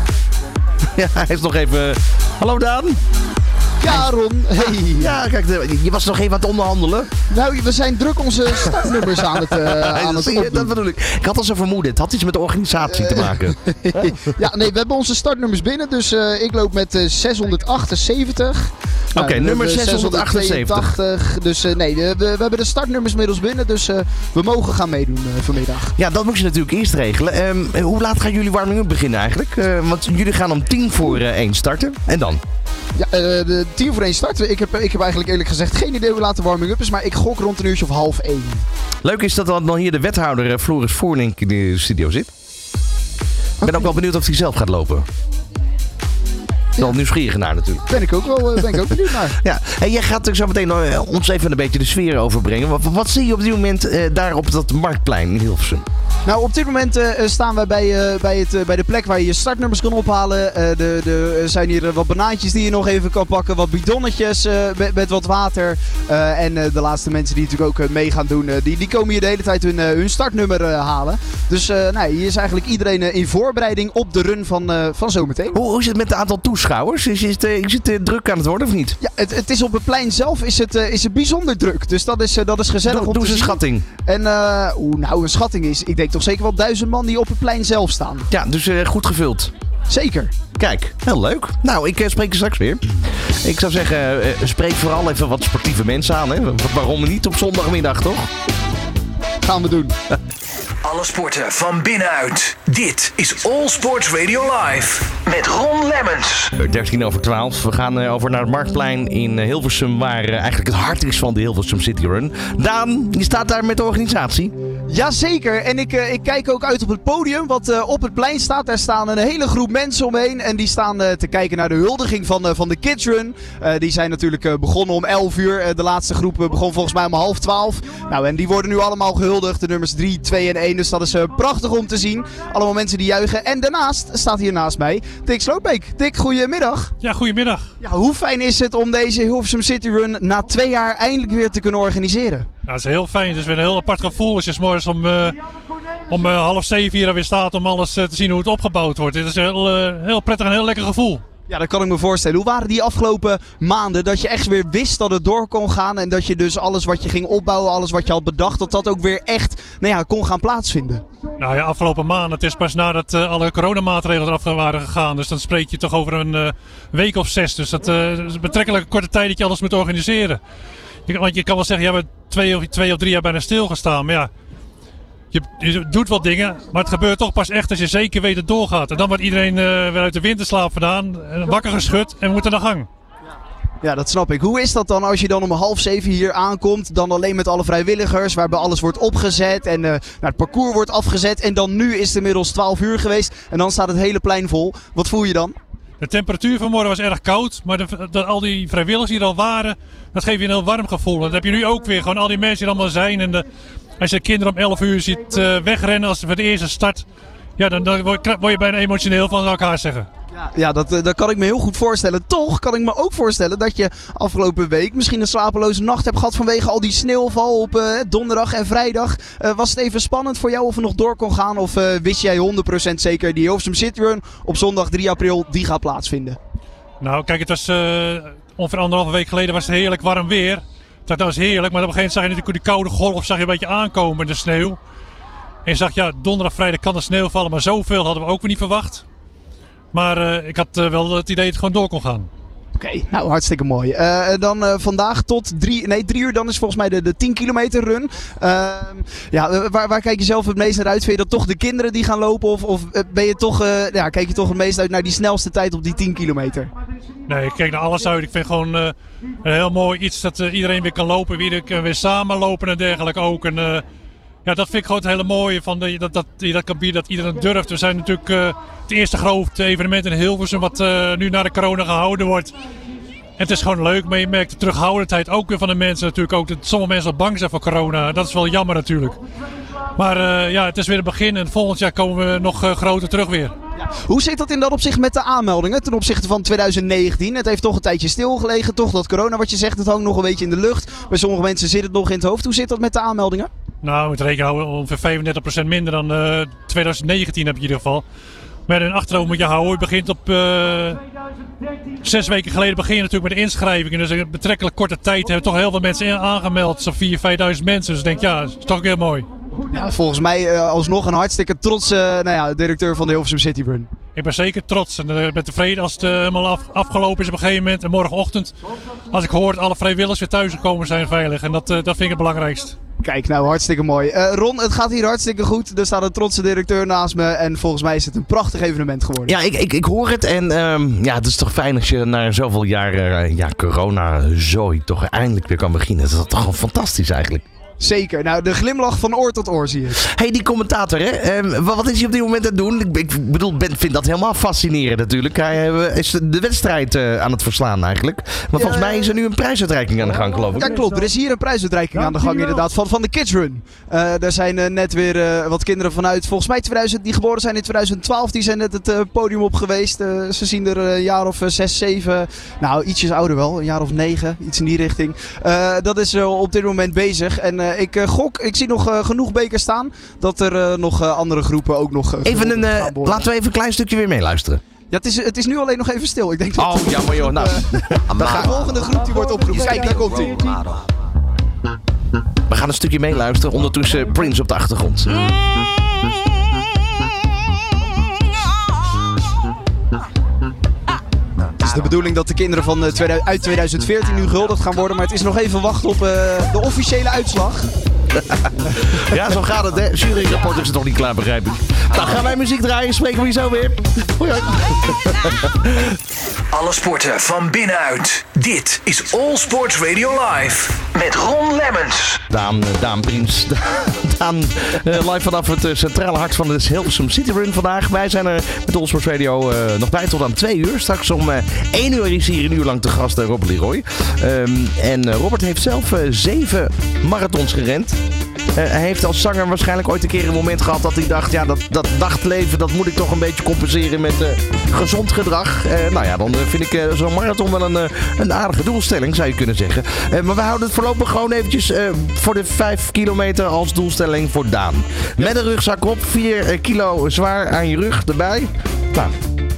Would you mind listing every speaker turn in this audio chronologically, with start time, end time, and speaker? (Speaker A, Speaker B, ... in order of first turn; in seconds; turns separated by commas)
Speaker A: 0.9-3.0, Speaker B: 3.8-5.1, Speaker A: 4.6-7.1, Speaker B: 7.3-10.7, Speaker A: 8.6-14.4, Speaker B: 12.9-25.9, Speaker A: 19.1-20.9, Speaker A: 26.0-32.4, Speaker B: 33.0-38.6, Speaker A: 39.0-42.3, Speaker A: 43.6-45.1, Speaker B: 43.6-43.9, Speaker A: 46.8-48.0, Speaker B: 47.9-49.4, Speaker A: 48.5-55.9, Speaker B: 56.2-75.6, Speaker A: 75.5-79.0, Speaker B: 79.0-88.3, Speaker A: 82.8-83.8, Speaker A: 88.3-89.5, Speaker B: 89.9-90.3, Speaker A: 90.5-98.3, Speaker B: 99.4-99.9, Speaker C: 100.8-106.5, Speaker A: 106.6-114.5, Speaker B: 114.9-136.9, Speaker D: 137.0-137.7, Speaker B: 137.8-142.5, Speaker D: 142.7-145.4, Speaker D: 146.1-151.2, Speaker B: 151.5-161.0, Speaker D: 161.4-170.4, Speaker D: 171.1-174.3, Speaker D: 175.3-182.9, Speaker B: 183.8-195.6, Speaker D: 196.0-203.4, Speaker D: 204.0-207.0, Speaker D: 207.6-210.1, Speaker B: 210.3-226.4, Speaker D: 227.0-234.8, Speaker D: 235.6-239.0, Speaker D: 239.9-242.3, Speaker B: 242.8-256.7, Speaker D: 257.3-263.8, Speaker D: 264.4-272.5, Speaker D: 273.4-279.2, Speaker D: 280.0-283.5, Speaker B: 283.8-293.5, Speaker D: 293.8-298.0, Speaker D: 298.7-301.0, Speaker D: 302.0-309.3, Speaker B: 309.7-313.9, Speaker D: 314.1-318.5, Speaker D: 319.1-322.8, Speaker B: 323.0-329.3, Speaker A: 329.2-337.4, Speaker B: 337.8-340.0, Speaker A: 340.0-350.9, Speaker B: 348.6-349.1, Speaker B: 350.5-373.3, Speaker D: 352.1-352.5, Speaker A: 372.2-374.6, Speaker B: 374.9-380.6, Speaker A: 376.6-378.6, Speaker A: 379.7-380.2, Speaker A: 382.5-385.3, Speaker B: 391.6-397.7, Speaker A: 398.1-405.9, Speaker C: 406.5-412.2, Speaker A: 412.3-428.0, Speaker A: 428.5-449.1